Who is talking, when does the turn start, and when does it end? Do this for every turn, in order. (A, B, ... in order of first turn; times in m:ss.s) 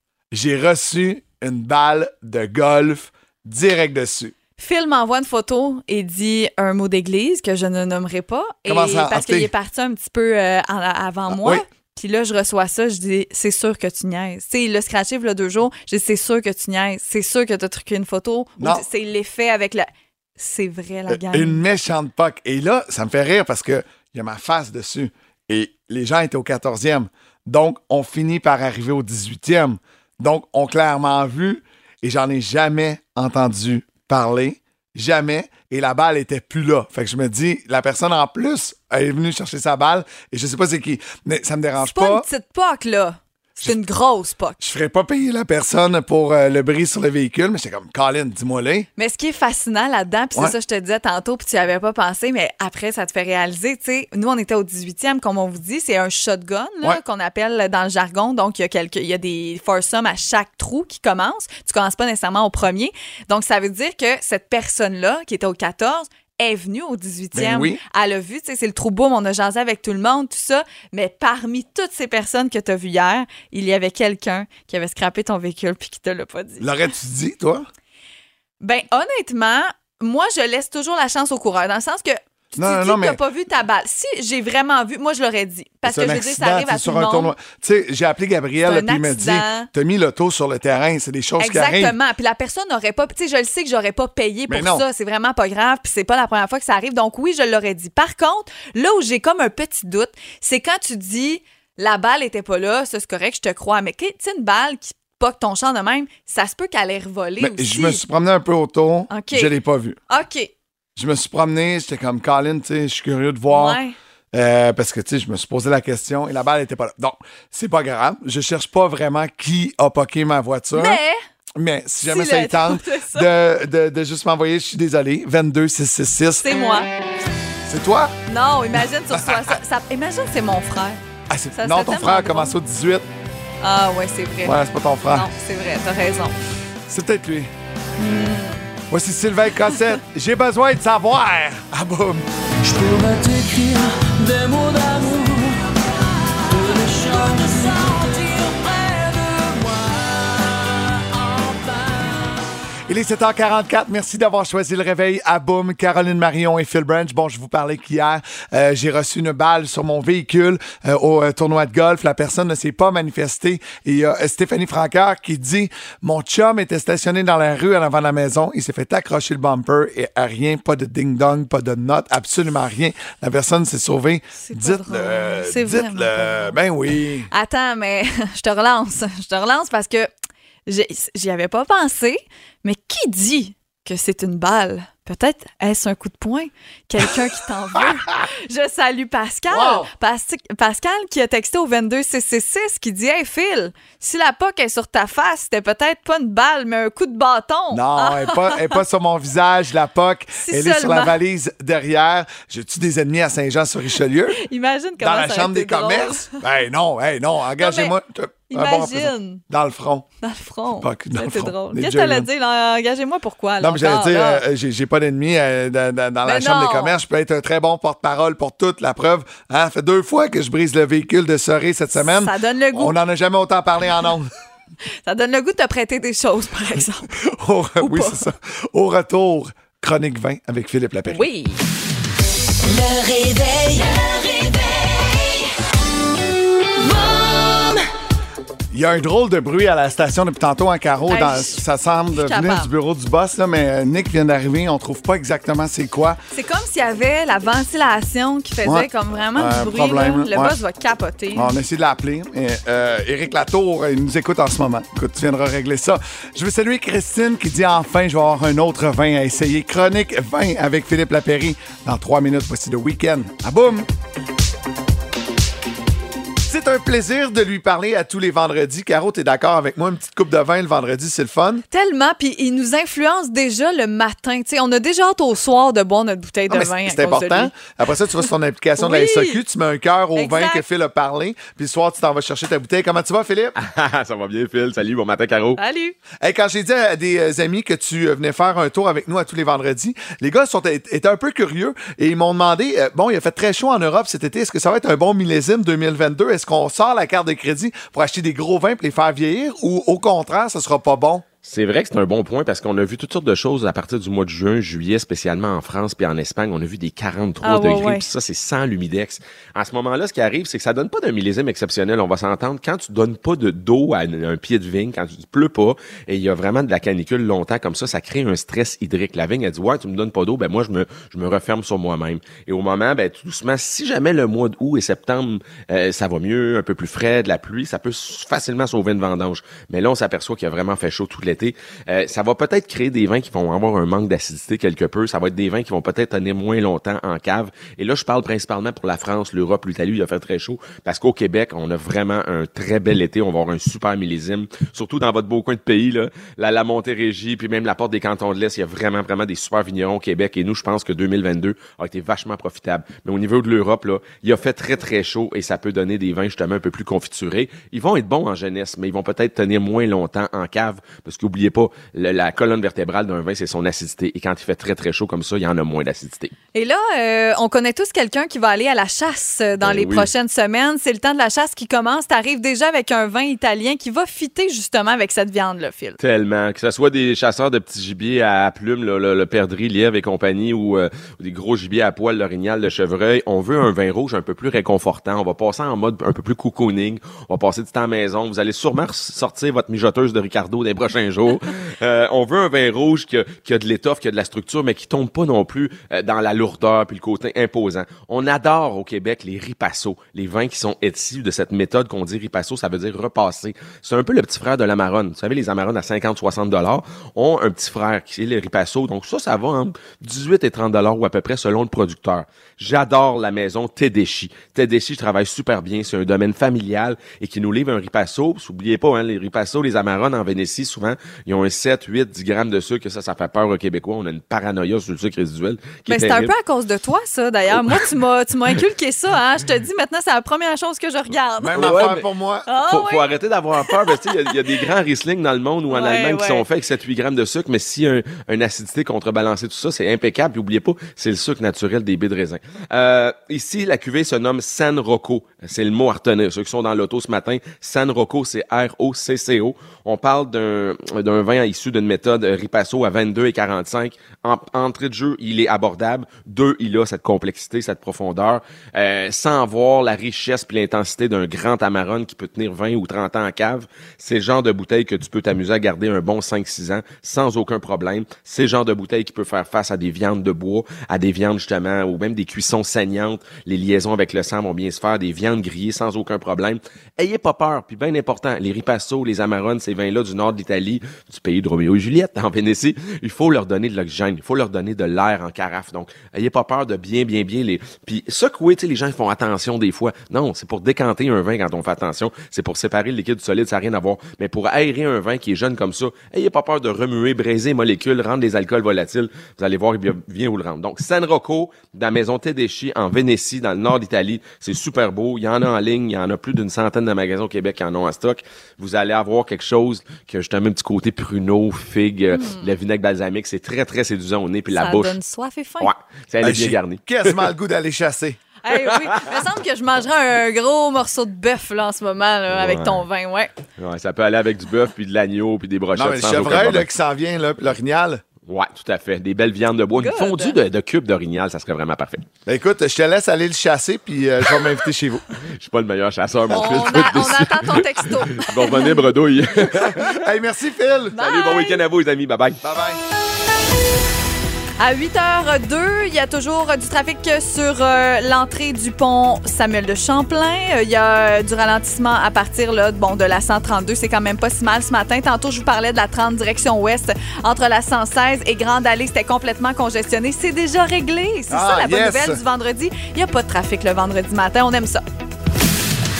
0:00.3-0:04.3 A
0:04.6-0:21.6 B
0:08.7-0:09.5 A
0:11.3-0:11.6 A
0:18.6-0:18.8 A
0:21.1-0:42.2 A
0:41.8-0:44.6 B
0:44.6-0:48.9 A
0:49.0-1:16.7 B
1:07.3-1:07.8 A
1:16.6-1:17.7 A
1:18.6-1:27.3 B
1:22.6-1:23.2 A
1:25.8-1:32.0 A
1:28.6-1:29.7 B
1:31.4-1:48.0 B
1:34.5-1:34.8 A
1:47.4-1:50.0 A
1:49.1-1:49.5 B
1:50.1-1:50.5 B
1:51.0-1:53.8 A
1:53.5-1:54.0 B
1:54.3-2:01.0 A
2:00.7-2:01.2 B
2:01.6-2:06.5 A
2:02.0-2:03.3 B
2:06.4-2:06.9 B
2:07.6-2:08.1 A
2:08.3-2:11.0 B
2:09.1-2:09.5 A
2:11.3-2:13.1 A
2:11.5-2:12.6 B
2:13.6-2:14.6 B
2:14.4-2:15.3 A
2:15.1-2:16.4 B
2:16.9-2:17.5 A
2:18.0-2:18.7 B
2:18.9-2:22.2 A
2:22.6-2:25.8 C
2:26.4-2:32.4 C
2:32.9-2:57.3 A
2:54.4-2:56.6 B
2:57.3-3:00.1 B
3:00.7-3:18.8 B
3:09.5-3:09.9 A
3:17.7-3:24.4 A
3:20.3-3:21.2 B
3:24.4-3:26.4 B
3:25.0-3:30.0 A
3:27.6-3:27.9 B
3:28.5-3:29.4 B
3:30.2-3:34.4 B
3:30.7-3:32.3 A
3:33.6-3:44.3 A
3:36.2-3:37.0 B
3:41.9-3:43.0 B
3:45.0-3:47.1 B
3:47.1-3:51.2 A
3:47.8-3:48.3 B
3:51.1-3:51.6 B
3:52.6-3:55.5 D
3:56.8-3:57.8 D
3:58.7-4:06.2 A
4:01.1-4:02.7 B
4:06.3-4:11.6 B
4:08.6-4:10.5 A
4:11.3-4:23.9 A
4:26.4-4:31.6 A
4:31.7-4:37.5 B
4:36.5-4:43.5 A
4:38.8-4:39.4 B
4:40.1-4:40.6 B
4:43.6-4:45.6 E
4:45.6-4:46.0 B
4:46.2-5:01.2 A
5:01.4-6:06.3 E
5:07.4-5:08.0 B
6:06.5-6:16.0 B
6:09.6-6:10.1 E
6:16.0-7:06.3 E
7:05.9-7:14.4 B
7:11.4-7:12.5 A
7:11.5-8:35.0 E
7:15.7-7:16.5 B
8:32.1-8:32.5 B
8:34.5-8:35.7 B
8:35.6-8:37.3 E
8:36.2-8:38.2 A
8:38.4-8:43.3 B
8:38.5-8:39.2 E
8:42.3-8:42.8 E
8:43.6-8:46.7 E
8:45.7-8:48.0 A
8:48.2-8:52.1 E
8:49.7-8:50.4 B
8:52.2-8:55.0 A
8:55.4-9:00.0 E
8:56.3-8:58.9 B
8:59.8-9:01.0 A
9:00.9-9:02.4 E
9:00.9-9:01.6 B
9:02.4-9:02.8 A
9:04.6-9:24.8 B
9:21.3-9:22.2 A